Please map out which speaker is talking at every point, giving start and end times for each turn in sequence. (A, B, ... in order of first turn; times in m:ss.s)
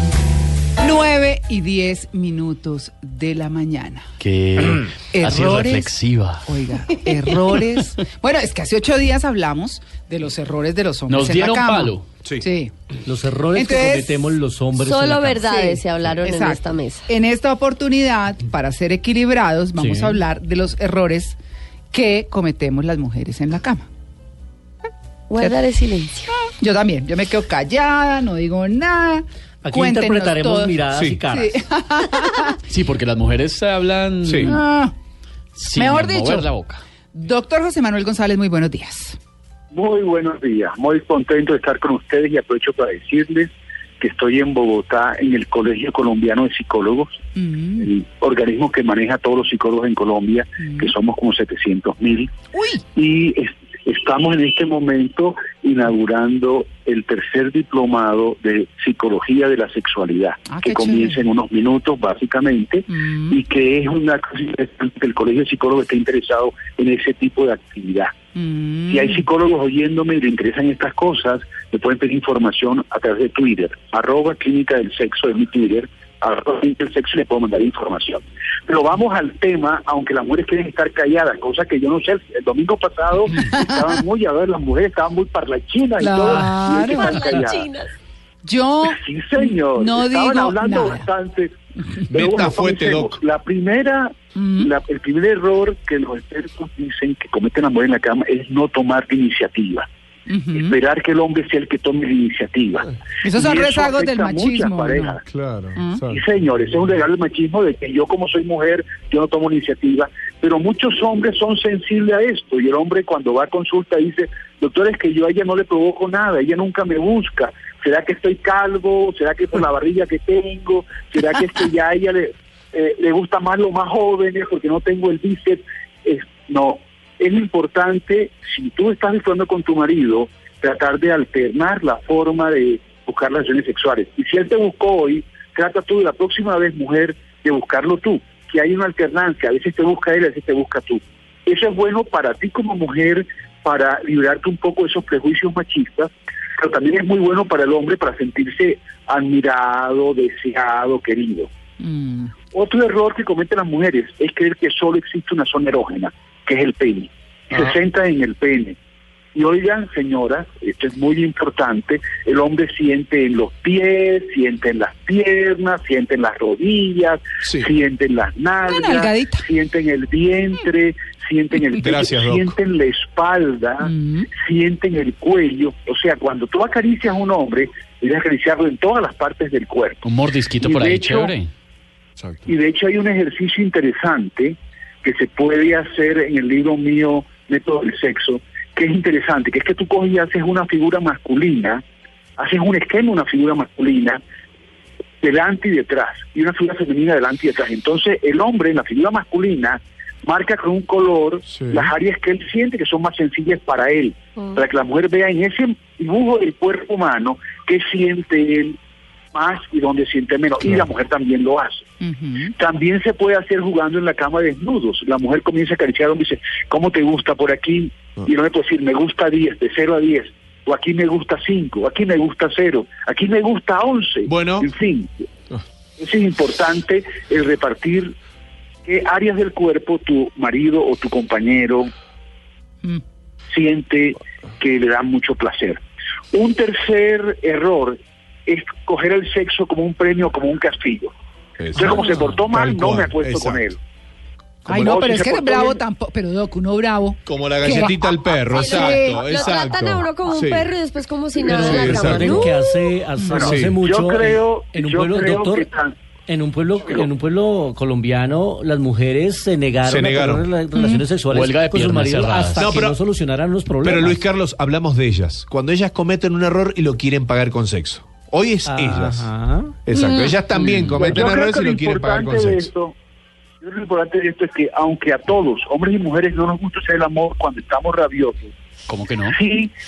0:00.8-0:04.1 A
0:04.2-0:06.6 B
0:05.1-0:12.7 A
0:11.1-0:12.0 B
0:13.0-0:15.5 C
0:13.5-0:14.2 A
0:14.8-0:17.1 D
0:15.5-0:21.4 A
0:19.8-0:20.2 B
0:21.9-0:23.9 A
0:25.3-0:26.3 D
0:26.4-0:30.8 A
0:29.6-0:31.6 C
0:30.9-0:31.2 E
0:31.3-0:32.6 A
0:32.7-0:34.6 B
0:34.2-0:34.5 E
0:34.4-0:34.9 A
0:35.6-0:36.8 B
0:35.8-0:36.5 A
0:37.1-0:39.2 A
0:39.7-0:47.2 F
0:47.4-0:47.9 A
0:47.8-0:52.4 F
0:50.6-0:50.9 A
0:52.5-0:52.8 A
0:52.9-1:08.2 F
1:00.5-1:01.2 A
1:03.1-1:03.3 A
1:08.4-1:09.1 A
1:08.9-1:27.7 F
1:23.4-1:23.9 A
1:26.0-1:27.1 A
1:26.8-1:27.9 D
1:28.4-1:31.1 A
1:28.8-1:31.5 F
1:32.1-1:33.2 E
1:32.1-1:39.9 F
1:34.4-1:34.7 A
1:40.3-1:40.8 A
1:40.5-1:45.2 F
1:43.2-1:45.2 A
1:45.3-1:46.2 E
1:45.8-1:46.0 A
1:46.0-2:31.5 F
2:31.8-2:32.4 A
2:32.4-2:38.8 F
2:39.4-3:00.1 F
2:48.7-2:49.4 A
2:51.8-2:52.6 E
2:53.8-2:54.3 A
3:00.0-3:01.5 B
3:00.6-3:01.4 F
3:02.2-3:02.5 E
3:02.5-3:11.8 F
3:12.4-3:14.2 F
3:15.2-3:28.8 F
3:21.4-3:21.9 E
3:24.4-3:24.6 D
3:29.3-3:31.9 F
3:32.0-3:32.5 A
3:32.5-3:45.1 F
3:44.3-3:44.7 E
3:46.0-3:48.2 F
3:48.9-3:51.9 F
3:53.5-4:01.1 F
4:01.6-4:03.7 E
4:01.8-4:03.8 F
4:04.7-4:08.0 A
4:04.7-4:05.0 E
4:04.8-4:05.8 F
4:07.3-4:10.7 E
4:08.4-4:12.9 D
4:08.8-4:09.2 A
4:11.4-4:12.5 E
4:11.5-4:15.7 C
4:13.1-4:13.5 A
4:13.3-4:16.0 F
4:13.4-4:13.8 E
4:16.3-4:24.2 C
4:19.8-4:20.5 E
4:20.8-4:21.1 A
4:21.3-4:22.8 B
4:22.6-4:23.0 E
4:23.8-4:29.3 E
4:28.7-4:29.7 C
4:29.9-4:32.7 E
4:29.9-4:30.4 D
4:30.6-4:31.2 C
4:31.0-4:33.0 F
4:33.6-4:38.5 F
4:38.9-4:39.4 B
4:39.3-4:39.7 F